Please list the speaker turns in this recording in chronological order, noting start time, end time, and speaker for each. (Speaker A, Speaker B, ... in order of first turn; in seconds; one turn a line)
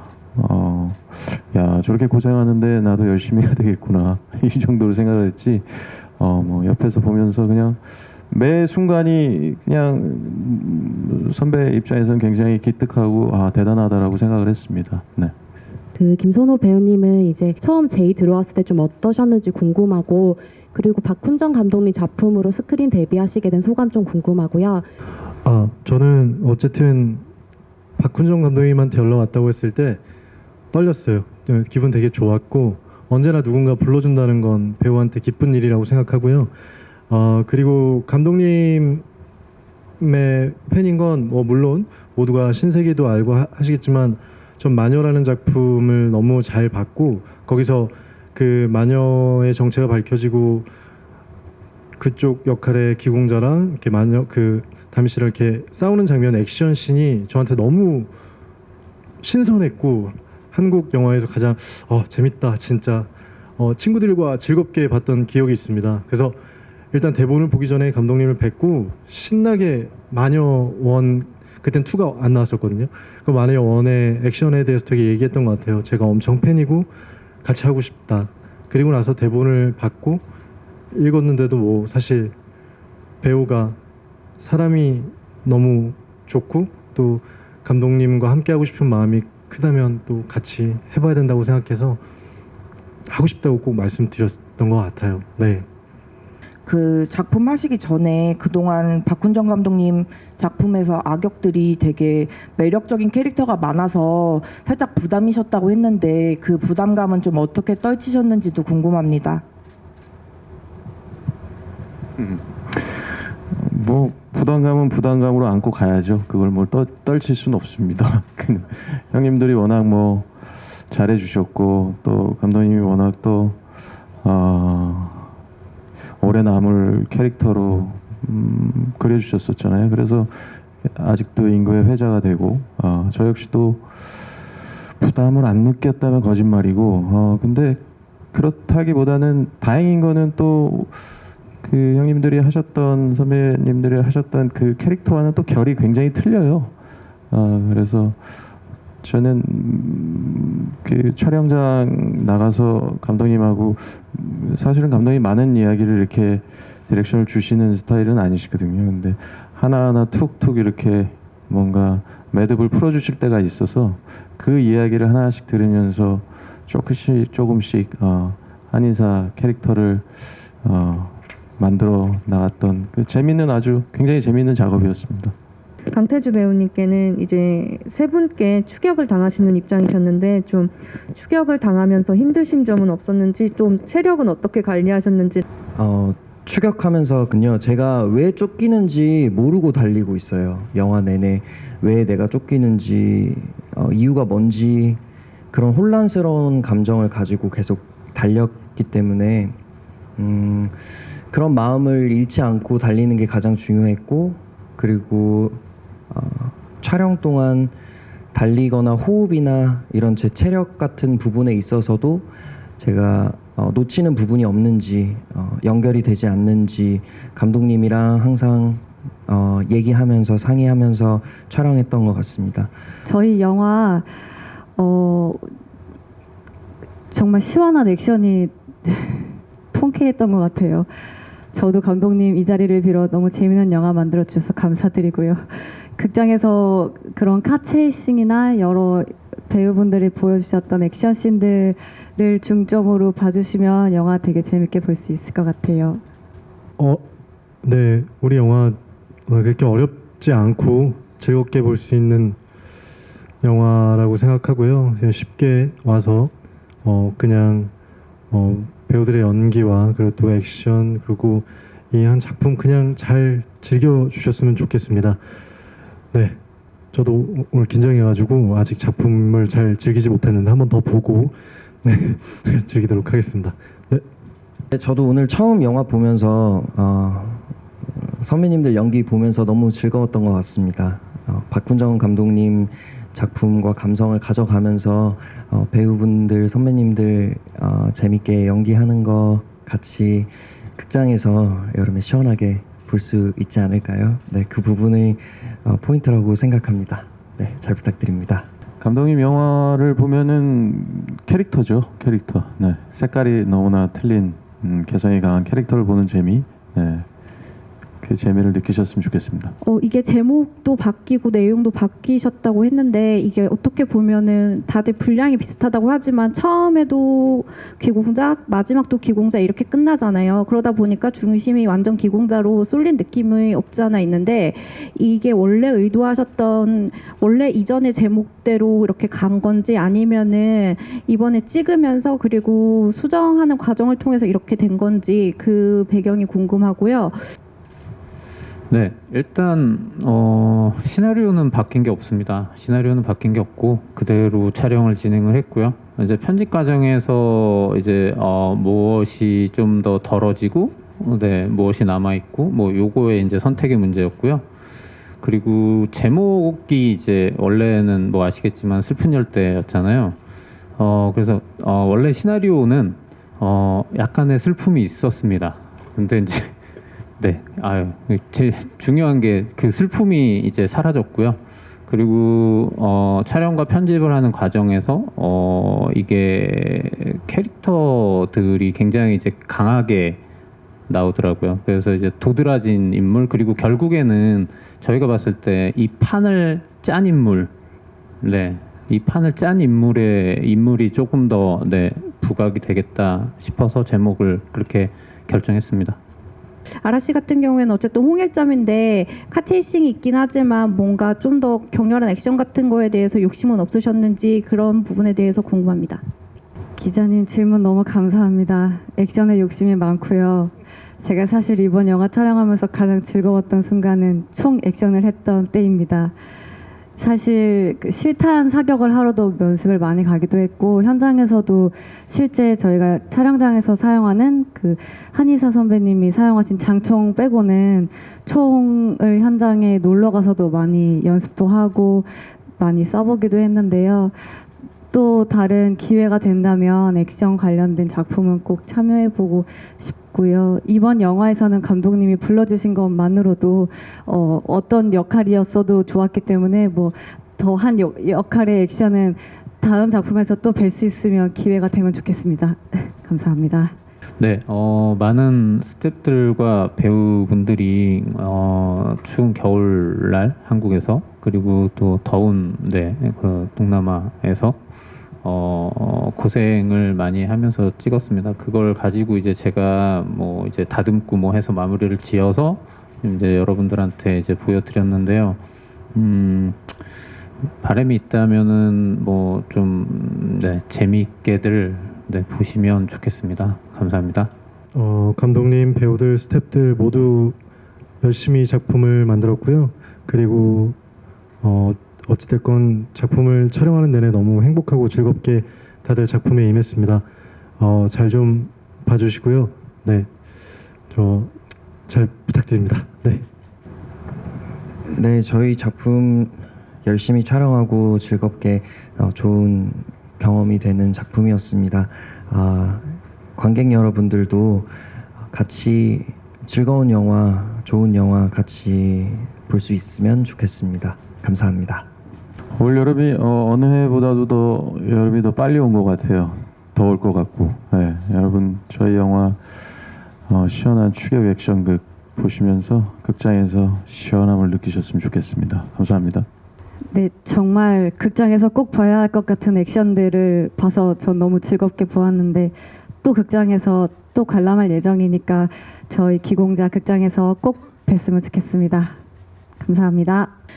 Speaker A: 0.3-15.3
Speaker B: 15.9-24.9
Speaker C: 25.4-27.2
Speaker C: 28.0-30.0
Speaker C: 30.7-36.5
Speaker C: 37.1-39.0
Speaker C: 40.0-50.7
Speaker C: 52.0-58.1
Speaker C: 59.2-66.4
Speaker C: 66.9-76.9
Speaker C: 77.4-80.2
Speaker C: 80.9-82.3
Speaker C: 83.2-83.8
Speaker C: 84.4-92.0
Speaker C: 93.1-95.7
Speaker D: 96.6-109.4
Speaker A: 112.2-123.6
Speaker A: 124.2-125.3
Speaker A: 126.2-146.7
Speaker A: 147.3-148.5
Speaker A: 149.0-175.3
Speaker E: 175.9-185.4
Speaker F: 185.8-195.0
Speaker F: 195.5-199.6
Speaker F: 200.2-207.7
Speaker F: 208.3-222.7
Speaker G: 223.0-224.1
Speaker G: 224.8-225.4
Speaker G: 227.1-230.9
Speaker G: 231.5-235.4
Speaker G: 235.9-246.0
Speaker C: 246.8-247.0
Speaker C: 247.6-252.4
Speaker C: 253.4-256.3
Speaker C: 256.8-257.7
Speaker C: 258.3-265.2
Speaker C: 266.1-266.4
Speaker C: 266.9-274.0
Speaker F: 274.7-298.5
Speaker A: 298.8-307.1
Speaker A: 308.0-309.5
Speaker H: 309.6-337.2
Speaker I: 338.7-354.4
Speaker I: 355.2-360.2
Speaker I: 360.8-366.6
Speaker I: 367.2-380.2
Speaker I: 380.9-387.5
Speaker I: 388.2-396.0
Speaker H: 396.8-406.0
Speaker G: 406.8-416.1
Speaker G: 416.9-434.1
Speaker G: 434.9-453.7
Speaker I: 454.2-464.6
Speaker I: 465.2-475.4
Speaker I: 475.9-476.8
Speaker I: 477.6-484.3
Speaker C: 484.7-487.4
Speaker C: 488.0-490.8
Speaker C: 491.4-497.0
Speaker C: 497.6-500.1
Speaker C: 500.9-501.3
Speaker C: 501.9-503.2
Speaker F: 504.9-521.9
Speaker A: 522.5-536.3
Speaker G: 536.9-549.0
Speaker G: 549.6-550.3